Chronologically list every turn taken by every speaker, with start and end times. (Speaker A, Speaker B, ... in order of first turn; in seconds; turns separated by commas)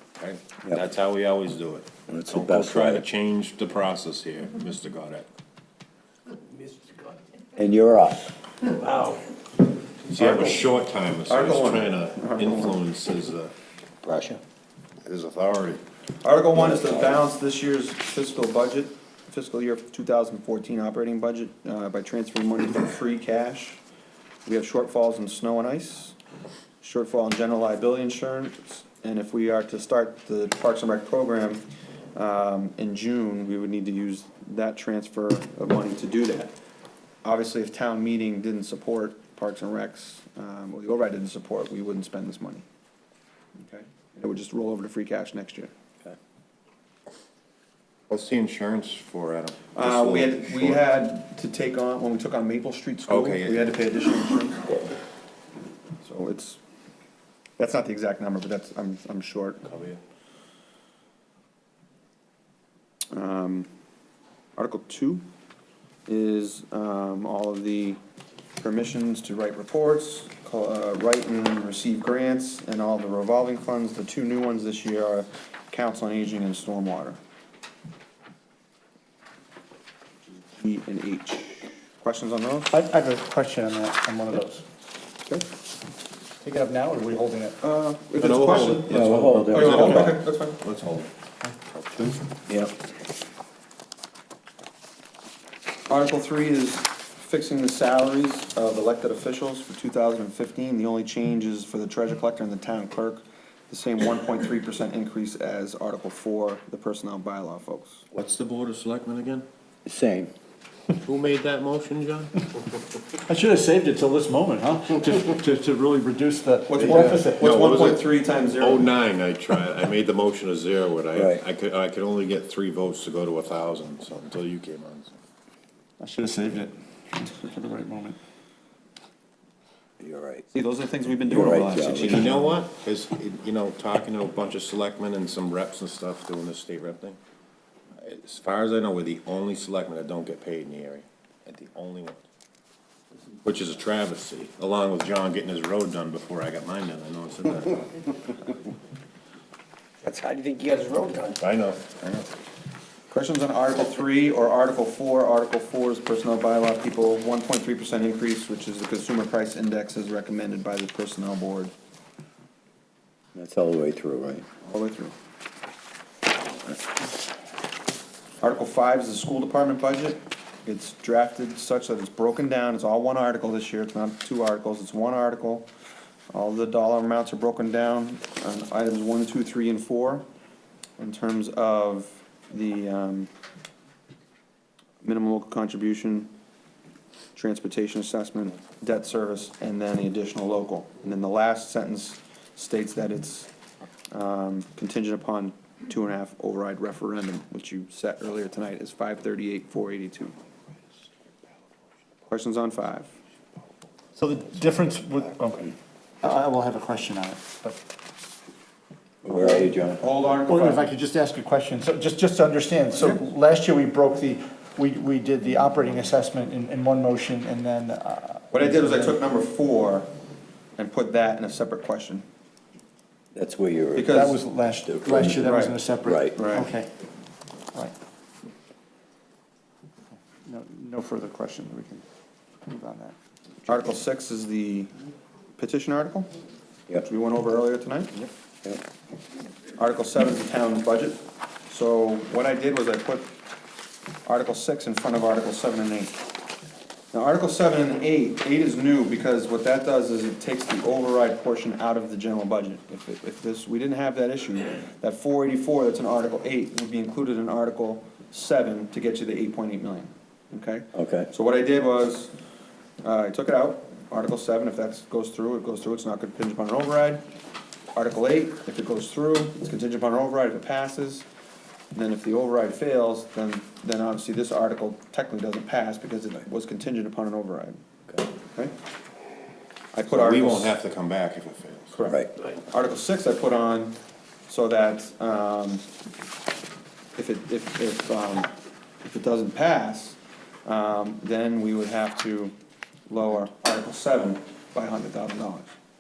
Speaker A: 0.2-5.3, Speaker B: 2.1-3.0, Speaker B: 7.6-8.3, Speaker A: 10.1-13.5, Speaker C: 10.2-10.6, Speaker C: 11.3-12.8, Speaker B: 14.0-14.4, Speaker A: 15.0-15.8, Speaker C: 16.2-23.8, Speaker B: 16.6-17.2, Speaker C: 24.4-26.2, Speaker C: 26.8-36.5, Speaker C: 37.2-42.6, Speaker C: 43.6-45.7, Speaker A: 48.1-50.8, Speaker C: 49.8-54.8, Speaker A: 53.1-53.7, Speaker C: 56.0-56.6, Speaker C: 57.6-59.8, Speaker A: 59.7-60.0, Speaker C: 63.1-63.7, Speaker C: 64.6-65.2, Speaker C: 66.1-68.0, Speaker C: 68.6-77.2, Speaker C: 80.5-82.8, Speaker D: 82.7-84.6, Speaker D: 86.4-87.6, Speaker C: 87.6-90.6, Speaker A: 88.2-91.1, Speaker B: 88.9-90.2, Speaker A: 91.7-92.2, Speaker C: 95.9-108.0, Speaker A: 108.1-109.5, Speaker B: 109.9-110.3, Speaker A: 111.0-112.5, Speaker D: 113.2-117.6, Speaker C: 116.7-118.9, Speaker A: 117.4-125.1, Speaker B: 121.1-121.4, Speaker D: 126.0-128.2, Speaker B: 130.0-130.5, Speaker C: 130.5-132.5, Speaker B: 131.3-132.3, Speaker A: 132.0-137.2, Speaker A: 138.0-142.2, Speaker A: 143.4-148.1, Speaker B: 150.1-151.4, Speaker A: 151.4-152.2, Speaker C: 153.1-161.7, Speaker B: 163.3-164.4, Speaker C: 164.7-165.2, Speaker C: 168.4-175.7, Speaker C: 176.3-180.2, Speaker C: 181.0-183.3, Speaker C: 185.0-186.3, Speaker C: 187.3-193.5, Speaker C: 194.1-200.3, Speaker C: 202.3-203.1, Speaker D: 204.2-207.8, Speaker B: 209.2-210.0, Speaker C: 209.3-210.9, Speaker D: 210.5-219.2, Speaker C: 213.0-213.2, Speaker C: 218.5-220.1, Speaker C: 220.8-222.2, Speaker B: 223.3-225.5, Speaker C: 223.9-224.4, Speaker D: 224.1-226.9, Speaker C: 225.4-225.8, Speaker B: 226.0-226.4, Speaker C: 226.3-226.7, Speaker D: 230.4-232.0, Speaker D: 232.7-233.2, Speaker C: 233.7-234.9, Speaker C: 235.6-236.3, Speaker C: 237.0-238.2, Speaker C: 239.8-243.3, Speaker C: 244.2-246.2, Speaker C: 247.1-262.3, Speaker B: 260.9-261.3, Speaker C: 263.0-267.2, Speaker C: 267.9-271.3, Speaker C: 271.9-277.8, Speaker C: 279.9-280.7, Speaker A: 280.1-281.9, Speaker C: 281.9-284.0, Speaker C: 284.5-285.8, Speaker C: 287.2-288.5, Speaker C: 289.0-292.5, Speaker C: 293.1-295.7